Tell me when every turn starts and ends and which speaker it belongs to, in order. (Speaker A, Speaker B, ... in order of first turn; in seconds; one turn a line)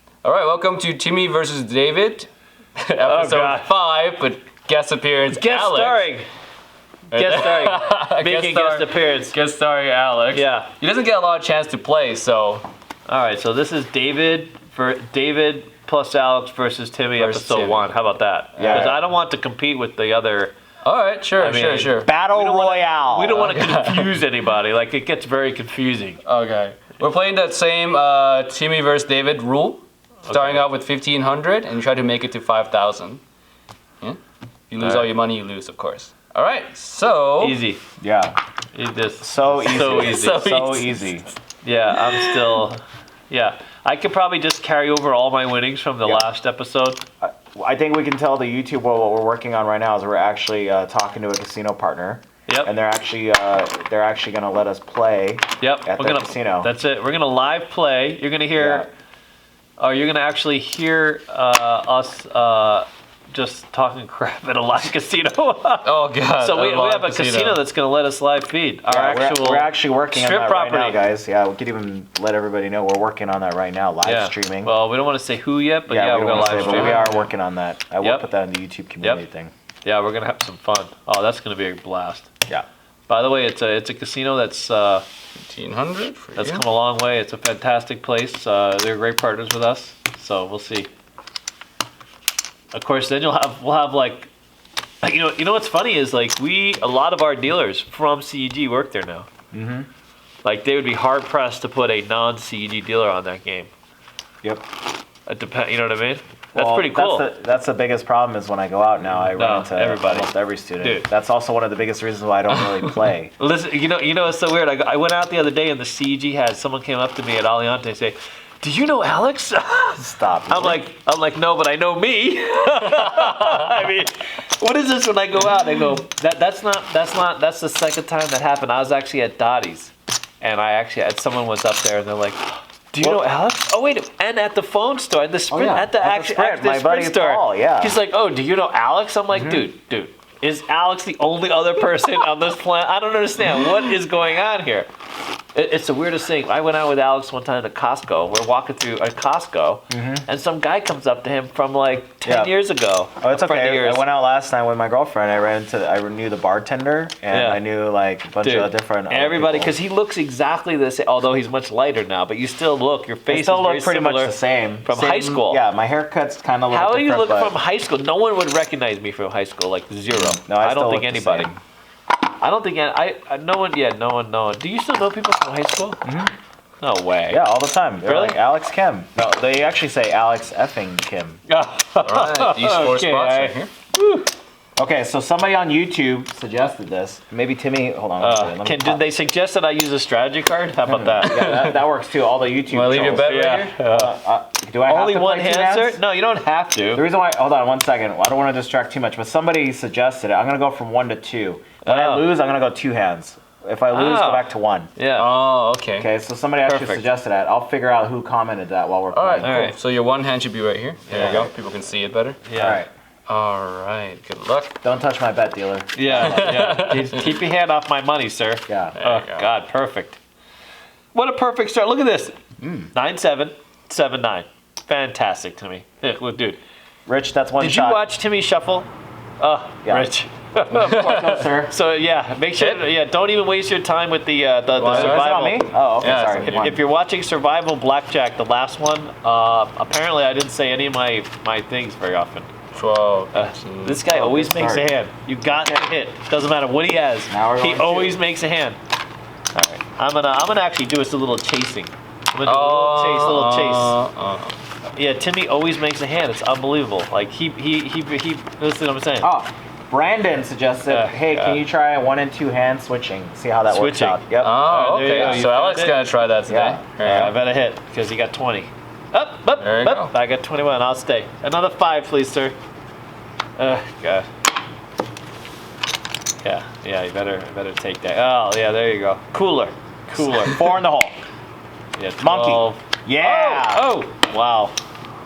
Speaker A: 0.2-2.3
Speaker A: 2.8-6.1
Speaker B: 3.0-3.7
Speaker B: 5.3-6.3
Speaker A: 7.1-12.7
Speaker B: 7.1-9.4
Speaker B: 10.3-10.7
Speaker B: 13.1-20.5
Speaker A: 17.2-17.9
Speaker C: 18.6-19.0
Speaker A: 18.6-19.0
Speaker A: 20.8-22.1
Speaker B: 21.3-26.2
Speaker C: 22.0-23.4
Speaker A: 23.3-24.2
Speaker A: 26.2-33.2
Speaker B: 30.2-30.6
Speaker A: 34.7-37.6
Speaker B: 34.8-35.1
Speaker B: 37.4-37.8
Speaker C: 38.0-38.4
Speaker B: 38.7-40.4
Speaker C: 39.2-41.2
Speaker A: 39.6-41.1
Speaker B: 41.6-47.0
Speaker C: 47.2-56.7
Speaker B: 55.6-58.9
Speaker C: 58.6-58.9
Speaker B: 59.8-71.0
Speaker A: 65.8-67.6
Speaker C: 68.9-74.7
Speaker B: 74.0-77.2
Speaker C: 75.9-79.5
Speaker A: 76.3-77.2
Speaker B: 78.0-78.3
Speaker B: 79.8-82.3
Speaker B: 83.1-85.0
Speaker A: 85.5-86.6
Speaker B: 86.3-90.9
Speaker B: 92.7-94.3
Speaker B: 95.0-99.3
Speaker C: 99.5-99.9
Speaker B: 100.4-103.7
Speaker B: 105.3-107.3
Speaker C: 106.5-113.3
Speaker B: 109.3-110.3
Speaker B: 110.8-111.1
Speaker B: 113.4-132.4
Speaker C: 120.0-120.8
Speaker B: 132.9-144.9
Speaker C: 133.0-133.2
Speaker C: 135.5-137.9
Speaker C: 139.3-139.7
Speaker B: 145.5-154.0
Speaker C: 149.9-150.2
Speaker C: 152.2-152.5
Speaker C: 153.2-159.7
Speaker B: 157.3-157.6
Speaker B: 158.4-165.6
Speaker C: 163.3-167.5
Speaker B: 166.7-171.5
Speaker C: 170.1-171.6
Speaker B: 172.4-176.0
Speaker C: 176.0-176.3
Speaker B: 176.8-177.4
Speaker C: 177.3-181.4
Speaker B: 178.0-178.4
Speaker B: 181.5-184.3
Speaker A: 182.0-183.7
Speaker C: 184.8-189.0
Speaker B: 188.2-191.4
Speaker C: 190.8-196.0
Speaker A: 191.2-191.8
Speaker A: 192.7-193.8
Speaker B: 193.2-194.1
Speaker B: 194.8-197.0
Speaker C: 196.9-204.9
Speaker B: 201.8-202.3
Speaker B: 203.9-205.3
Speaker A: 205.1-206.1
Speaker C: 206.0-209.7
Speaker B: 206.6-207.1
Speaker A: 209.1-212.4
Speaker B: 209.4-209.8
Speaker C: 211.1-211.5
Speaker B: 212.4-212.8
Speaker C: 212.5-212.9
Speaker A: 213.3-214.8
Speaker C: 214.8-216.9
Speaker B: 215.9-220.2
Speaker A: 216.1-217.3
Speaker C: 218.7-218.9
Speaker A: 218.9-219.5
Speaker B: 221.1-222.4
Speaker C: 222.6-222.9
Speaker B: 222.9-226.6
Speaker C: 227.1-228.0
Speaker B: 227.6-235.7
Speaker C: 229.8-230.1
Speaker C: 230.8-231.7
Speaker A: 230.8-231.4
Speaker A: 232.6-232.8
Speaker A: 234.8-235.3
Speaker C: 234.9-236.8
Speaker A: 236.0-236.7
Speaker B: 236.4-242.5
Speaker A: 242.7-244.0
Speaker B: 243.3-248.8
Speaker C: 244.1-244.9
Speaker C: 245.5-245.8
Speaker C: 247.3-248.2
Speaker B: 249.5-254.0
Speaker A: 252.4-254.6
Speaker B: 254.9-259.3
Speaker C: 259.2-265.4
Speaker B: 260.9-261.6
Speaker B: 263.7-266.0
Speaker A: 264.4-267.3
Speaker C: 266.5-267.3
Speaker B: 267.0-272.6
Speaker A: 269.6-270.1
Speaker B: 273.6-274.3
Speaker B: 276.4-280.7
Speaker C: 280.1-281.2
Speaker B: 281.9-284.8
Speaker C: 282.2-283.9